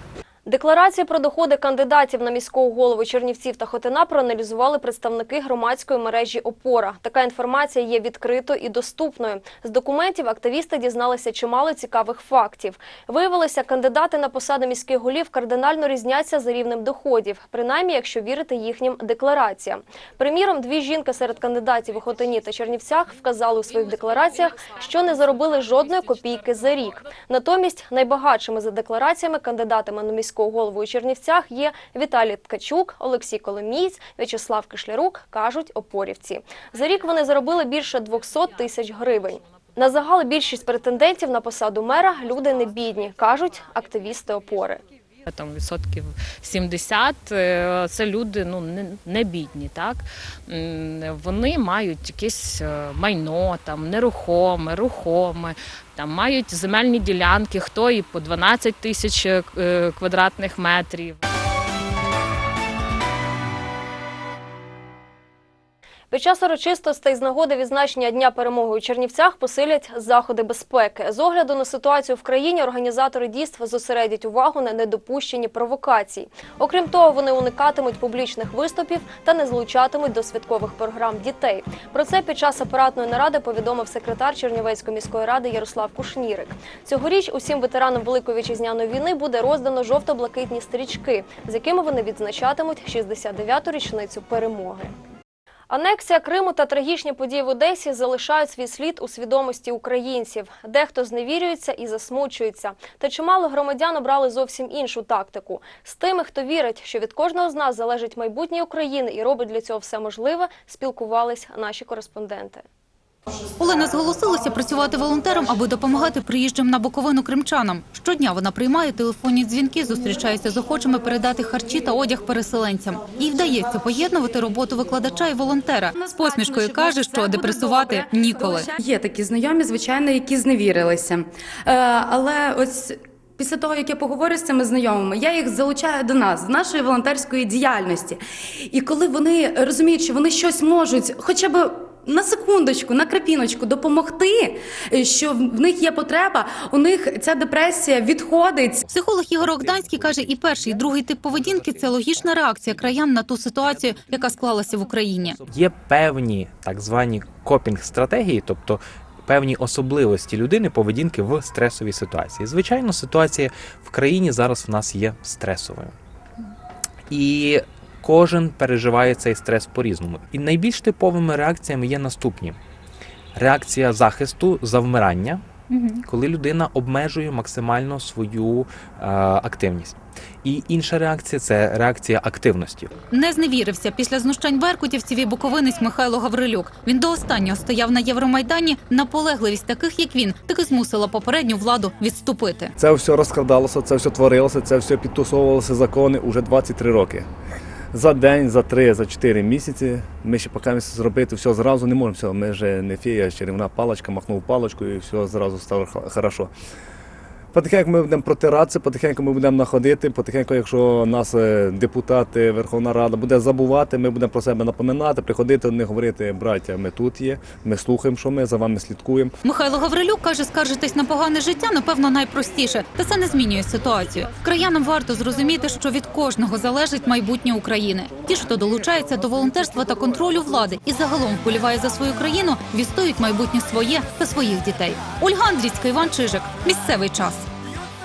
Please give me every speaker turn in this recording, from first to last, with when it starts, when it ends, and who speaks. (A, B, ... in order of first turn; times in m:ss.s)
0:00.5-0:44.8 A
0:45.3-1:01.2 B
1:06.1-1:34.9 A
1:35.7-1:52.6 A
1:53.6-2:08.7 C
2:06.0-2:28.8 D
2:28.9-2:35.4 C
2:35.4-2:45.9 E
2:47.1-2:52.6 E
2:53.3-2:55.4 E
2:55.7-2:56.0 C
2:56.1-3:02.9 E
3:03.1-3:12.7 C
3:12.8-3:17.3 F
3:17.9-3:26.5 F
3:27.5-3:39.3 F
3:39.5-3:57.5 C